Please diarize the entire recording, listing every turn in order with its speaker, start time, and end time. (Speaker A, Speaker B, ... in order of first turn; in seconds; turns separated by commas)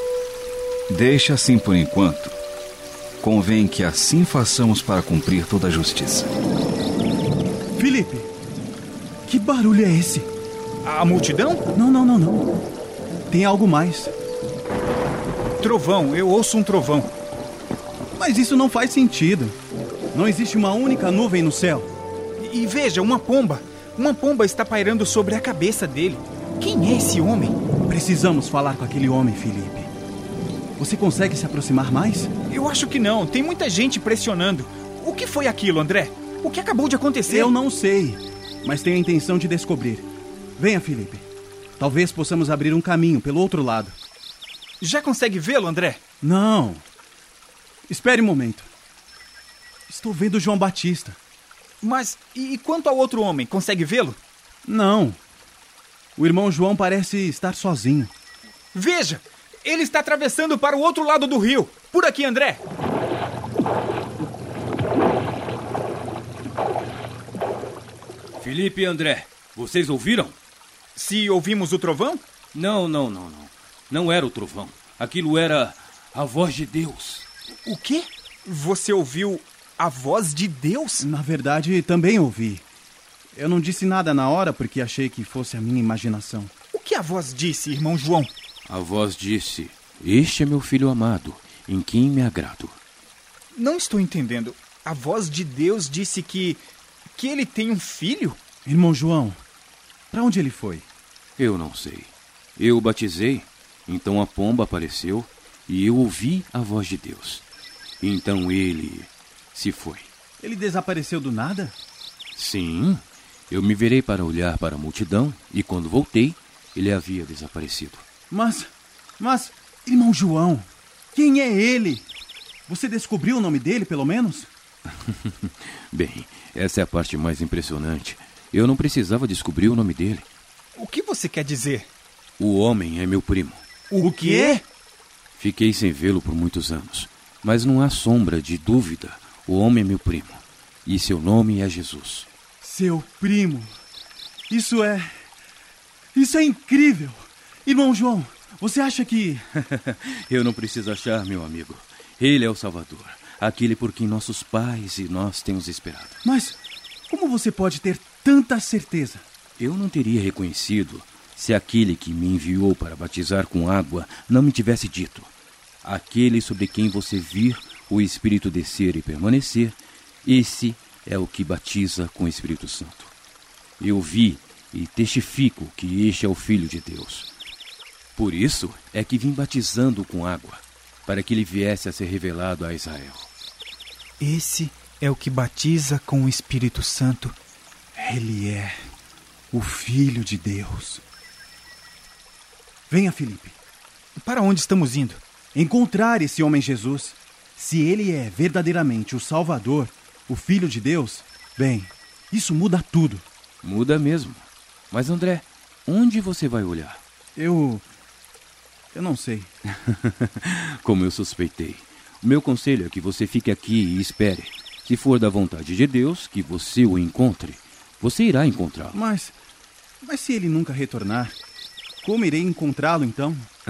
Speaker A: 0.9-2.4, Speaker A: 3.2-6.3, Speaker B: 7.8-8.3, Speaker B: 9.3-10.3, Speaker C: 10.8-11.7, Speaker B: 11.8-12.5, Speaker B: 13.3-14.1, Speaker C: 15.6-17.1, Speaker B: 18.1-19.6, Speaker B: 20.1-21.9, Speaker C: 22.4-27.6, Speaker B: 27.9-29.9, Speaker B: 30.8-32.3, Speaker C: 32.5-37.5, Speaker B: 37.3-41.3, Speaker B: 41.8-44.0, Speaker C: 44.8-46.0, Speaker B: 46.2-46.8, Speaker B: 47.9-48.7, Speaker B: 49.9-51.2, Speaker C: 51.8-54.2, Speaker B: 54.6-55.2, Speaker B: 56.2-58.1, Speaker C: 58.7-62.6, Speaker D: 68.4-70.3, Speaker C: 71.0-72.2, Speaker D: 72.5-77.3, Speaker C: 77.7-81.1, Speaker B: 81.0-82.6, Speaker B: 83.3-86.5, Speaker C: 86.7-88.3, Speaker D: 88.7-92.8, Speaker C: 93.5-96.6, Speaker C: 97.2-98.4, Speaker B: 98.7-99.4, Speaker B: 100.1-100.9, Speaker D: 101.4-107.4, Speaker D: 108.0-110.1, Speaker B: 110.4-111.8, Speaker D: 112.4-118.0, Speaker B: 118.3-122.0, Speaker B: 122.7-124.5, Speaker D: 125.1-130.3, Speaker C: 130.8-131.9, Speaker D: 132.4-133.6, Speaker C: 133.9-134.6, Speaker B: 134.0-134.6, Speaker D: 135.4-142.3, Speaker B: 142.6-143.7, Speaker B: 144.5-145.1, Speaker B: 146.2-149.4, Speaker D: 149.6-156.2, Speaker B: 156.2-156.6, Speaker B: 157.1-159.2, Speaker D: 159.6-165.3, Speaker D: 165.8-173.1, Speaker D: 173.8-177.3, Speaker D: 178.2-183.3, Speaker C: 184.2-187.4, Speaker B: 188.0-188.8, Speaker B: 189.5-191.0, Speaker B: 192.9-193.6, Speaker C: 194.2-195.2, Speaker B: 195.5-203.2, Speaker D: 203.6-207.0, Speaker B: 207.4-207.8, Speaker B: 208.9-209.5, Speaker D: 210.4-219.0, Speaker B: 218.9-219.3, Speaker B: 220.0-221.4, Speaker B: 222.0-223.5